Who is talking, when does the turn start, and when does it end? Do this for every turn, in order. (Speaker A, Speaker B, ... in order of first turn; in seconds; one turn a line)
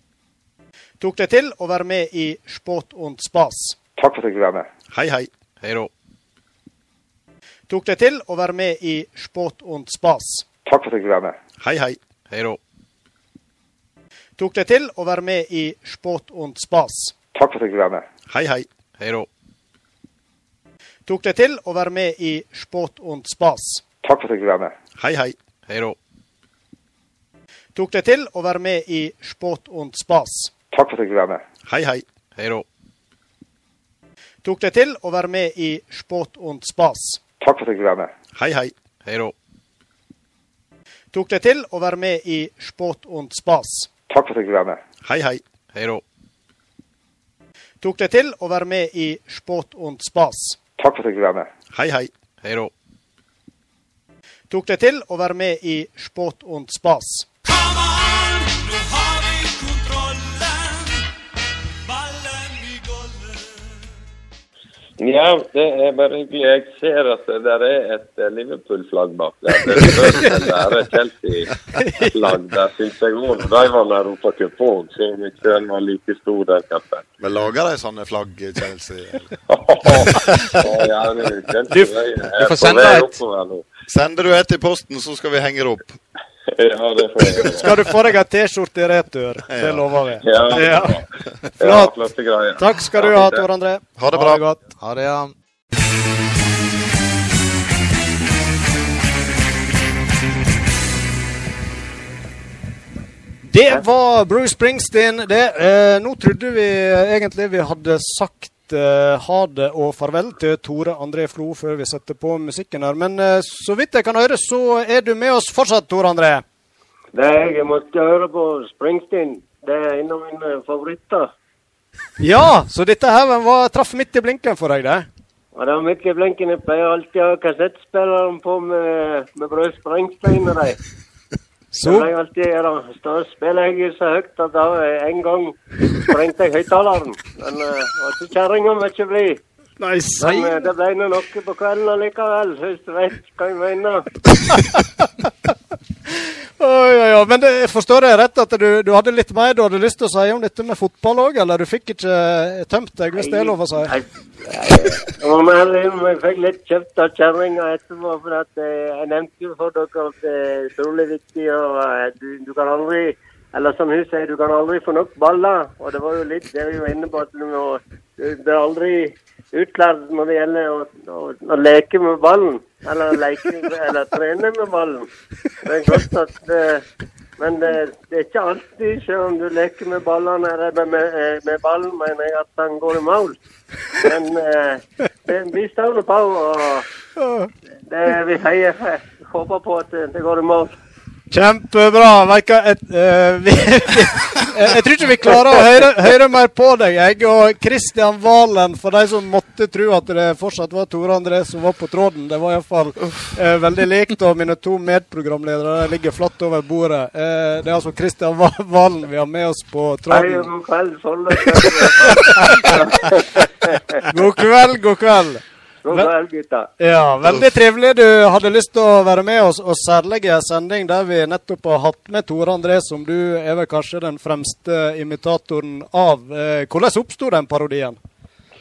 Speaker A: 1.0-3.8
Speaker B: 4.0-4.7
Speaker C: 4.9-5.3
Speaker D: 5.6-5.9
Speaker A: 7.7-10.4
Speaker B: 10.7-11.4
Speaker C: 11.6-12.0
Speaker D: 12.3-12.6
Speaker A: 14.4-17.1
Speaker B: 17.3-18.1
Speaker C: 18.3-18.7
Speaker D: 19.0-19.3
Speaker A: 21.1-23.8
Speaker B: 24.0-24.8
Speaker C: 25.0-25.3
Speaker D: 25.7-25.9
Speaker A: 27.7-30.5
Speaker B: 30.7-31.4
Speaker C: 31.7-32.0
Speaker D: 32.4-32.6
Speaker A: 34.4-37.2
Speaker B: 37.4-38.1
Speaker C: 38.3-38.7
Speaker D: 39.0-39.3
Speaker A: 41.1-43.9
Speaker B: 44.1-44.8
Speaker C: 45.0-45.4
Speaker D: 45.7-46.0
Speaker A: 47.8-50.6
Speaker B: 50.8-51.5
Speaker C: 51.7-52.1
Speaker D: 52.4-52.7
Speaker A: 54.5-57.3
Speaker E: 65.0-77.1
Speaker A: 71.8-72.1
Speaker C: 77.2-79.2
Speaker E: 79.5-83.7
Speaker D: 82.4-83.2
Speaker C: 83.9-86.0
Speaker E: 86.5-87.8
Speaker A: 87.5-91.0
Speaker C: 89.5-89.9
Speaker E: 90.2-91.0
Speaker E: 91.6-93.5
Speaker A: 91.6-91.9
Speaker A: 92.6-94.6
Speaker C: 94.0-94.4
Speaker D: 94.8-95.3
Speaker A: 103.5-116.4
Speaker F: 117.1-121.3
Speaker A: 122.2-125.1
Speaker F: 125.5-130.8
Speaker A: 131.7-132.1
Speaker F: 131.8-139.4
Speaker A: 139.8-140.7
Speaker F: 140.2-144.1
Speaker A: 146.6-153.9
Speaker F: 153.1-175.1
Speaker F: 175.6-176.8
Speaker F: 177.4-183.4
Speaker F: 184.0-186.8
Speaker A: 187.2-187.5
Speaker F: 187.9-190.8
Speaker A: 191.3-210.5
Speaker F: 210.1-214.0
Speaker A: 211.6-212.5
Speaker A: 214.1-216.1
Speaker F: 215.8-216.7
Speaker A: 216.8-228.0